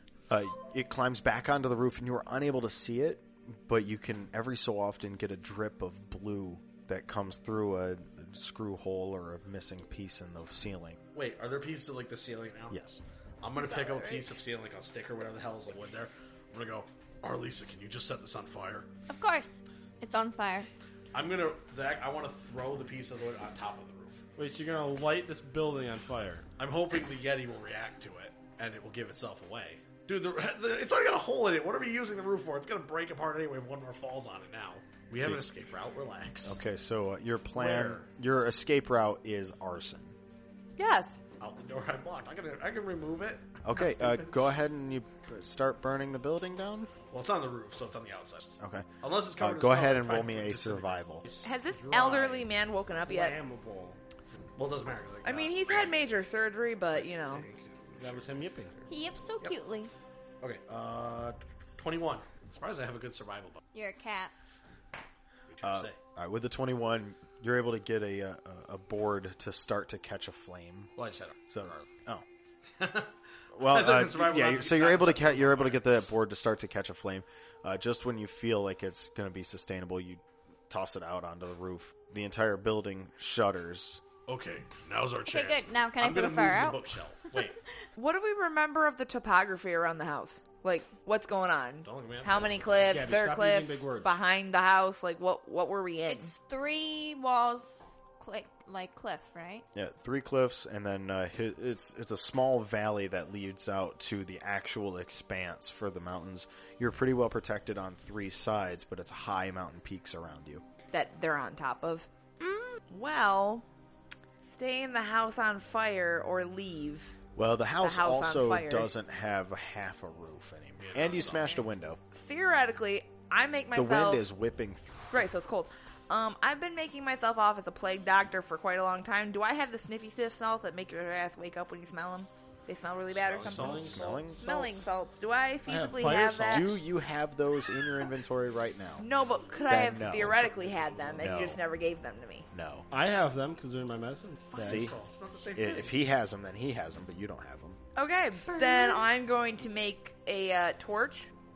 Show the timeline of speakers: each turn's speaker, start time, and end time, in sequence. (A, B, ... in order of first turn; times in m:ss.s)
0:00.3-0:11.0 A
0:11.1-0:12.8 B
0:12.7-0:13.0 A
0:13.4-0:18.9 B
0:19.1-0:20.7 C
0:21.1-0:24.2 B
0:24.4-0:26.4 D
0:26.6-0:36.6 B
0:35.2-0:35.4 A
0:36.4-0:40.1 A
0:37.6-0:38.0 D
0:40.8-0:41.2 E
0:41.4-0:44.5 B
0:43.6-0:46.9 A
0:47.1-0:51.0 B
0:48.6-0:51.2 A
0:51.2-0:54.0 D
0:51.4-0:53.4 E
0:54.6-0:56.0 B
0:55.2-0:57.4 E
0:56.9-0:58.4 B
0:58.0-0:58.8 D
0:58.9-0:59.9 C
1:00.4-1:03.6 B
1:03.7-1:04.3 C
1:05.5-1:06.0 B
1:05.6-1:10.9 A
1:11.0-1:11.9 B
1:11.5-1:12.2 A
1:12.8-1:15.8 B
1:13.5-1:24.0 A
1:24.3-1:27.6 B
1:25.3-1:26.8 C
1:28.0-1:36.3 E
1:31.8-1:33.2 B
1:32.9-1:34.2 D
1:36.1-1:39.6 C
1:39.7-1:50.6 A
1:50.9-1:52.1 E
1:52.4-1:52.8 C
1:52.9-1:53.6 E
1:54.4-1:57.1 E
1:57.4-2:02.0 A
1:57.8-1:58.9 E
2:00.8-2:01.6 B
2:02.1-2:04.2 E
2:03.7-2:05.1 A
2:05.1-2:16.8 E
2:13.1-2:14.2 B
2:13.5-2:14.9 A
2:13.5-2:14.1 D
2:15.6-2:16.8 D
2:16.4-2:19.1 A
2:19.0-2:22.5 E
2:19.7-2:20.4 A
2:20.1-2:21.3 B
2:21.2-2:21.6 A
2:22.5-2:22.8 A
2:22.9-2:24.9 D
2:24.5-2:26.0 B
2:24.6-2:24.9 A
2:25.6-2:27.8 A
2:28.0-2:31.3 E